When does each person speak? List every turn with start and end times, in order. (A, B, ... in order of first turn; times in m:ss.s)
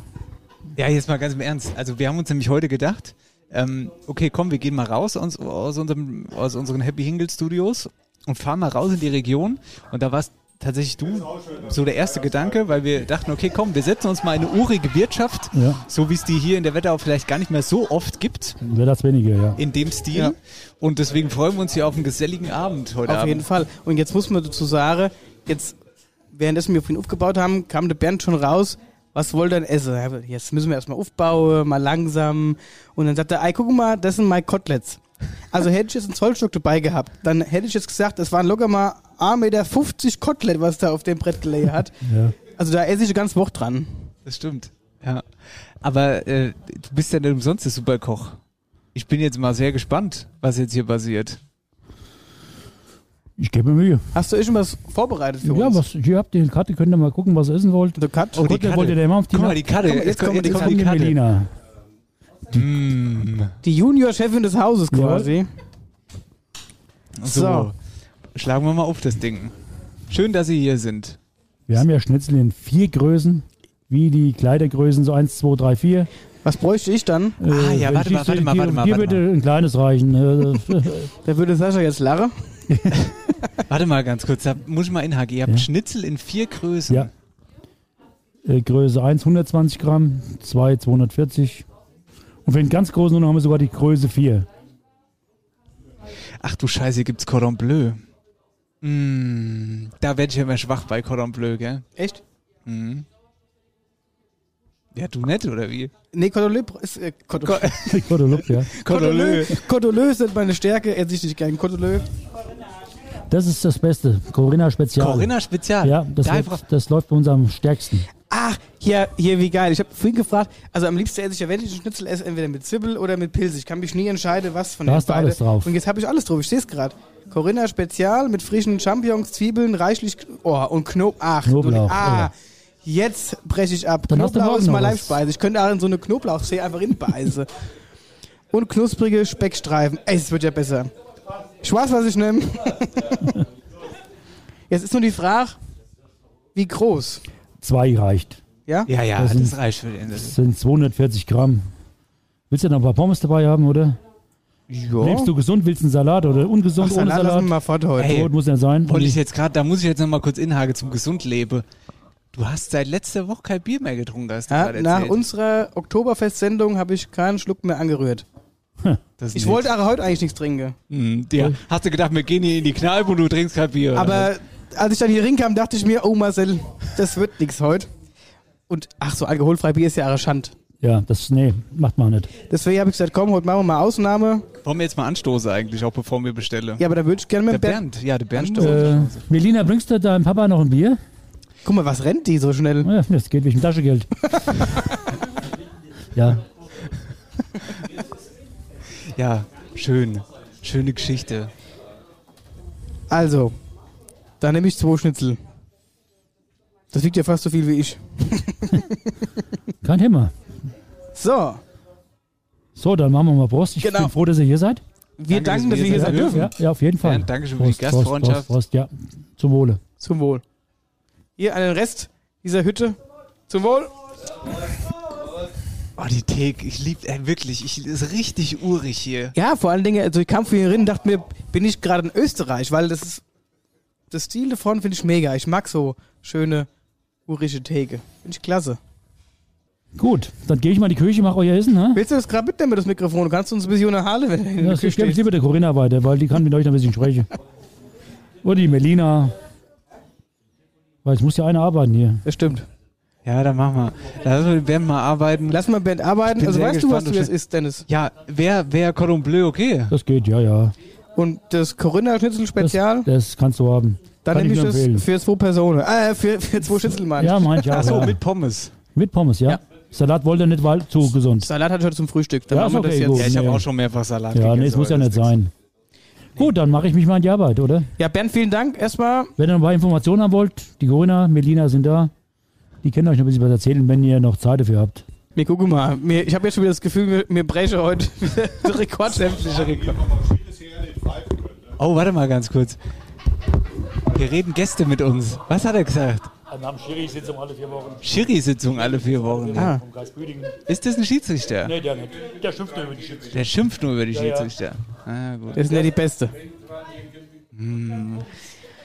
0:00.8-0:18.6 A
0:15.5-0:15.8 B
0:18.6-0:19.6 B
0:19.6-0:23.4 A
0:23.0-0:25.8 C
0:26.3-0:35.0 C
0:35.5-0:41.9 C
0:42.0-0:42.3 B
0:42.5-0:43.9 C
0:44.2-0:45.2 A
0:45.8-0:48.4 A
0:48.9-0:51.4 A
0:53.4-0:54.1 B
0:54.1-0:55.8 C
0:55.4-0:59.6 B
0:58.0-0:58.4 C
0:58.3-1:01.2 A
0:59.8-1:00.8 C
1:00.4-1:01.5 B
1:02.5-1:03.5 A
1:03.6-1:05.5 C
1:04.9-1:05.3 B
1:07.2-1:07.7 A
1:07.2-1:07.7 C
1:08.3-1:09.5 A
1:10.1-1:11.2 A
1:11.7-1:16.1 B
1:16.4-1:17.4 C
1:17.4-1:21.1 B
1:17.5-1:19.2 A
1:21.2-1:22.3 C
1:22.7-1:23.0 B
1:23.7-1:27.1 A
1:28.4-1:31.6 B
1:32.4-1:34.5 B
1:36.4-1:38.0 A
1:38.8-1:41.8 A
1:42.6-1:43.0 A
1:44.9-1:45.9 A
1:46.1-1:47.9 C
1:47.4-1:48.0 A
1:47.9-1:48.7 B
1:48.7-1:49.6 A
1:48.8-1:52.0 C
1:53.3-1:58.1 B
1:55.0-1:56.6 A
1:58.3-2:12.3 C
2:04.9-2:05.7 B
2:11.4-2:12.3 B
2:12.8-2:17.5 C
2:14.1-2:15.2 B
2:18.5-2:20.9 C
2:21.6-2:23.2 C
2:24.7-2:25.6 C
2:26.5-2:27.2 C
2:27.6-2:28.4 B
2:28.9-2:30.4 A
2:29.2-2:29.6 B
2:30.1-2:31.7 B
2:32.5-2:34.0 B
2:34.7-2:35.3 C
2:35.0-2:39.2 B
2:36.8-2:38.2 C
2:38.0-2:38.3 A
2:38.8-2:41.6 A
2:42.3-2:45.2 A
2:44.5-2:48.2 C
2:49.2-2:49.7 A
2:49.3-2:50.8 C
2:50.9-2:54.3 A
2:53.9-2:57.9 C
2:58.7-3:00.5 C
3:00.8-3:02.3 B
3:02.5-3:04.5 C
3:04.6-3:06.8 A
3:06.8-3:07.8 C
3:07.5-3:09.2 A
3:08.3-3:08.9 C
3:08.6-3:11.0 B
3:11.6-3:12.9 C
3:12.8-3:14.1 B
3:16.1-3:16.4 B
3:19.1-3:21.5 A
3:23.1-3:23.5 C
3:24.4-3:25.4 C
3:26.9-3:29.1 C
3:29.8-3:30.3 B
3:31.1-3:31.6 C
3:32.8-3:34.8 B
3:33.8-3:34.1 C
3:35.2-3:36.5 C
3:35.3-3:38.5 A
3:35.9-3:39.8 B
3:40.0-3:40.4 C
3:41.4-3:43.0 C
3:43.5-3:43.9 C
3:46.0-3:49.3 A
3:49.3-3:53.2 C
3:54.1-3:56.7 C
3:57.3-3:58.8 C
4:00.0-4:02.0 B
4:01.9-4:05.2 C
4:04.6-4:07.3 B
4:08.4-4:09.3 B
4:11.0-4:12.2 B
4:12.2-4:12.6 C
4:13.2-4:15.6 A
4:15.5-4:17.8 C
4:16.2-4:17.3 A
4:17.9-4:19.9 A
4:19.9-4:20.7 B
4:21.2-4:23.1 C
4:22.6-4:25.0 B
4:24.2-4:28.1 C
4:27.2-4:28.2 B
4:27.7-4:28.7 A
4:28.9-4:31.5 B
4:31.4-4:33.3 C
4:32.5-4:33.6 B
4:33.1-4:35.3 A
4:34.3-4:35.5 B
4:36.4-4:37.9 B
4:38.0-4:39.3 C
4:39.4-4:42.1 B
4:42.8-4:45.0 B
4:45.3-4:49.3 C
4:49.0-4:50.2 A
4:51.8-4:52.8 A
4:54.1-4:56.3 A
4:56.5-4:58.0 B
4:58.0-4:59.7 A
4:59.1-5:00.6 B
4:59.6-4:59.8 C
5:00.7-5:01.7 A
5:01.6-5:03.3 B
5:03.3-5:05.9 A
5:04.1-5:04.5 B
5:05.5-5:06.3 C
5:07.5-5:08.3 A